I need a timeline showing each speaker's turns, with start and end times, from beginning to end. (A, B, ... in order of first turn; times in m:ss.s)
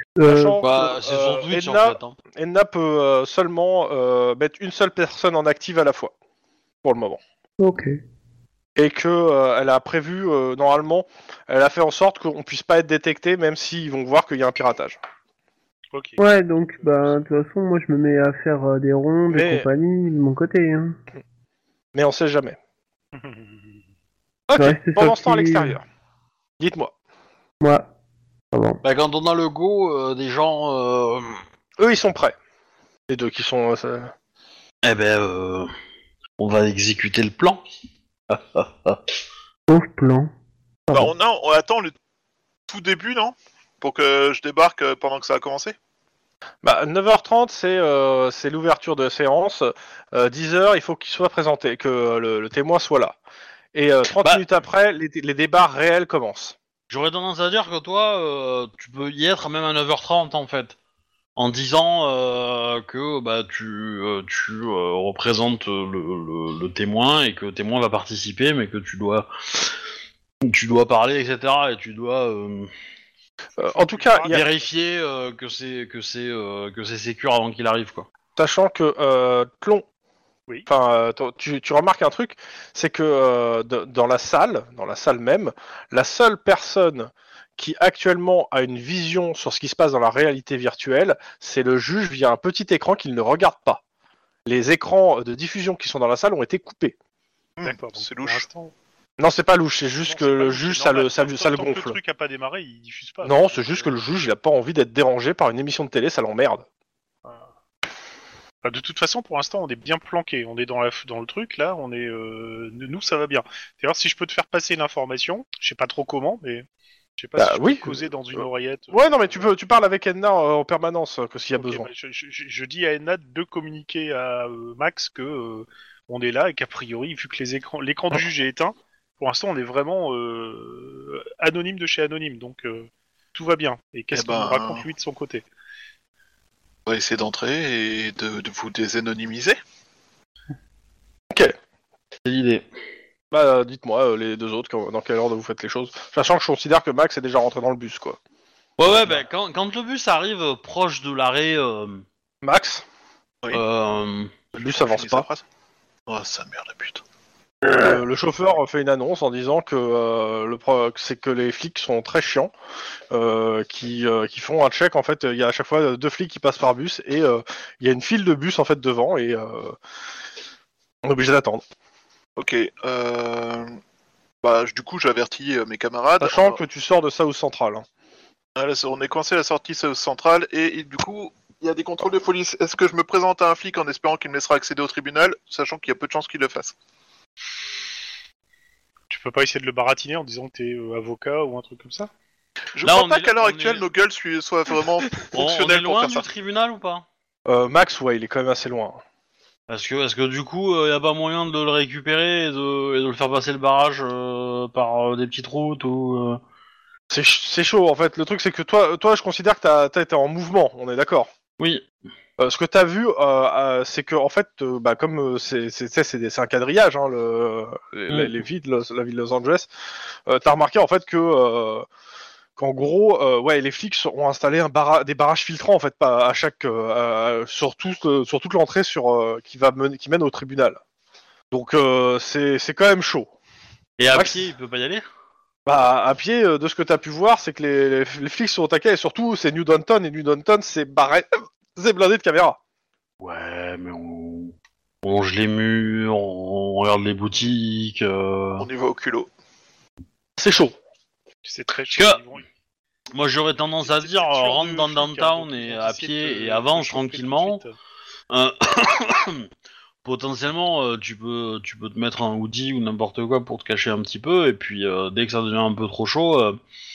0:00.2-0:00.6 A
0:00.3-0:06.1 B
0:00.6-0:02.2 C
0:06.8-0:07.2 B
0:07.6-0:08.0 A
0:08.8-0:15.0 B
0:15.9-0:17.2 D
0:16.2-0:21.0 A
0:19.3-0:19.7 B
0:21.9-0:22.6 B
0:23.1-0:23.8 D
0:24.5-0:25.8 B
0:24.6-0:25.8 A
0:26.6-0:26.9 B
0:27.6-0:27.9 A
0:28.5-0:28.8 A
0:28.8-0:31.4 C
0:31.8-0:32.4 B
0:33.1-0:34.1 B
0:34.8-0:35.7 C
0:36.4-0:37.6 C
0:38.3-0:39.1 C
0:39.7-0:40.3 A
0:40.9-0:41.1 A
0:40.9-0:41.9 E
0:42.7-0:45.8 E
0:46.6-0:53.2 B
0:53.7-0:56.6 B
0:56.9-1:00.8 C
1:01.4-1:09.7 C
1:10.4-1:12.7 C
1:13.6-1:14.4 B
1:13.6-1:14.6 D
1:14.3-1:18.1 C
1:18.4-1:19.8 B
1:20.7-1:33.8 B
1:34.4-1:36.9 B
1:37.6-1:38.4 E
1:37.6-1:38.7 D
1:39.2-1:42.0 B
1:40.0-1:43.9 D
1:43.2-1:46.6 B
1:48.6-1:56.6 D
1:57.2-1:59.5 D
1:57.4-2:01.9 B
2:01.6-2:15.4 D
2:14.1-2:14.9 E
2:16.9-2:19.6 E
2:22.2-2:22.6 C
2:23.3-2:28.2 B
2:28.8-2:32.0 C
2:32.4-2:32.8 B
2:33.5-2:34.4 C
2:34.5-2:35.4 E
2:34.6-2:35.3 B
2:36.1-2:37.0 E
2:37.7-2:42.5 B
2:43.1-2:49.8 B
2:51.0-2:51.6 B
2:52.4-2:53.8 E
2:54.4-2:56.6 E
2:56.2-2:57.8 B
2:58.6-3:06.7 E
3:09.1-3:12.1 D
3:12.8-3:16.2 E
3:12.8-3:13.8 C
3:15.3-3:17.0 C
3:17.4-3:19.0 B
3:19.7-3:26.4 C
3:27.1-3:31.3 B
3:31.6-3:31.9 C
3:32.4-3:39.7 B
3:40.3-3:41.9 B
3:42.6-3:50.8 B
3:51.5-3:53.3 B
3:54.0-3:55.0 C
3:54.1-3:54.4 B
3:55.6-4:02.6 B
4:03.2-4:08.7 C
4:08.6-4:09.3 E
4:10.4-4:10.8 B
4:11.4-4:12.4 D
4:11.9-4:12.2 C
4:13.1-4:17.6 C
4:13.8-4:17.8 D
4:18.3-4:19.5 C
4:20.0-4:26.6 C